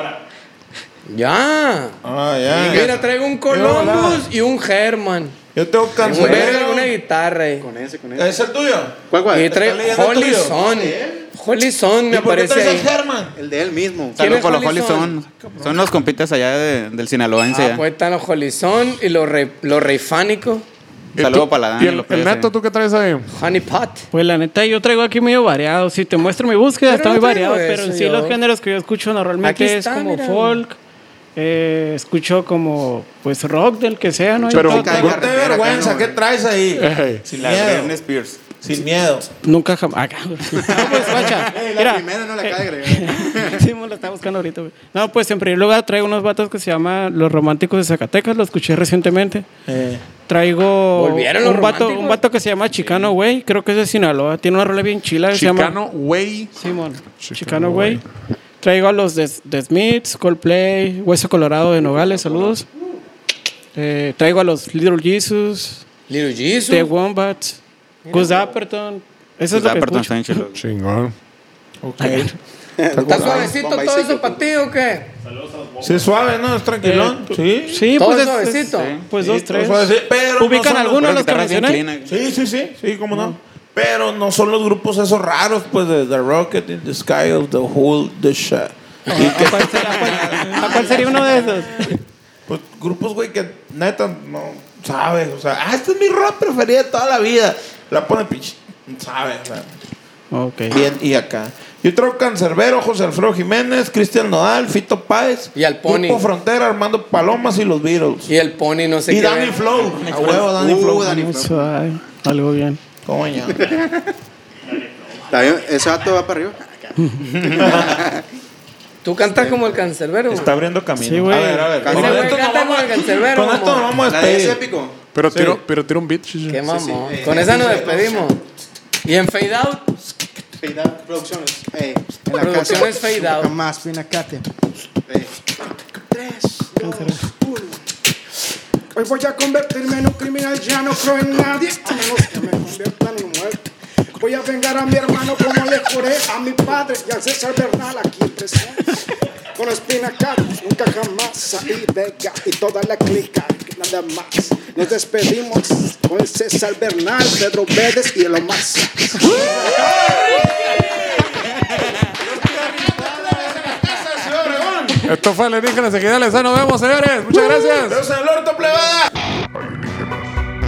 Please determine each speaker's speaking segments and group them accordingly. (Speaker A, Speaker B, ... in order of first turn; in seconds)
Speaker A: 1.1-2.0, 2.6-5.3, 6.0-7.7, 9.3-12.9, 14.2-15.2, 17.5-20.6, 23.3-24.1, 26.9-28.4, 29.4-30.6, 50.9-52.2, 66.1-66.9, 68.1-68.3, 73.0-75.1, 78.0-78.9, 105.5-106.2, 108.3-110.4, 119.0-120.5, 121.8-123.9, 126.5-128.4, 129.0-130.0, 132.3-133.5
Speaker B: 2.0-4.3, 5.5-6.9, 8.2-9.0, 9.5-10.6, 12.1-13.3, 15.3-15.9, 34.9-38.0, 38.5-39.3, 49.7-50.0, 71.8-72.3, 73.0-73.5, 75.8-77.9, 79.2-81.2, 82.1-91.9, 92.5-99.7, 100.7-108.3, 109.1-111.2, 113.0-113.8, 117.5-118.0, 120.3-124.6, 125.3-125.6, 159.7-165.1, 167.7-169.1
Speaker C: 2.5-3.0, 6.0-6.5, 7.6-8.4, 9.1-9.6, 10.5-11.3, 13.3-14.2, 34.5-36.2, 41.0-43.6, 72.8-74.5, 110.2-111.7, 113.7-114.0, 115.2-118.2, 119.3-119.8, 121.8-122.4, 124.0-125.0, 126.7-128.3, 130.6-134.5, 136.1-136.7
Speaker D: 14.1-17.8, 21.2-22.5, 37.3-38.4, 40.7-41.3, 69.5-70.6, 78.7-79.0, 81.0-82.1, 90.1-91.0, 110.1-110.4
Speaker E: 21.1-23.3, 34.5-35.2, 36.8-37.2, 55.3-56.5, 57.2-58.0, 70.6-71.1, 125.1-126.6, 165.0-168.0, 169.6-170.3
Speaker F: 24.1-30.8, 31.4-35.2, 39.4-49.5, 50.2-55.8, 56.5-58.0, 58.6-62.7, 63.7-65.8, 66.7-70.4, 72.0-72.3, 76.8-81.8, 89.1-92.0, 100.3-100.8, 111.0-112.8, 121.0-122.0, 136.8-137.2
Speaker G: 136.7-137.8, 138.9-148.9, 149.5-159.9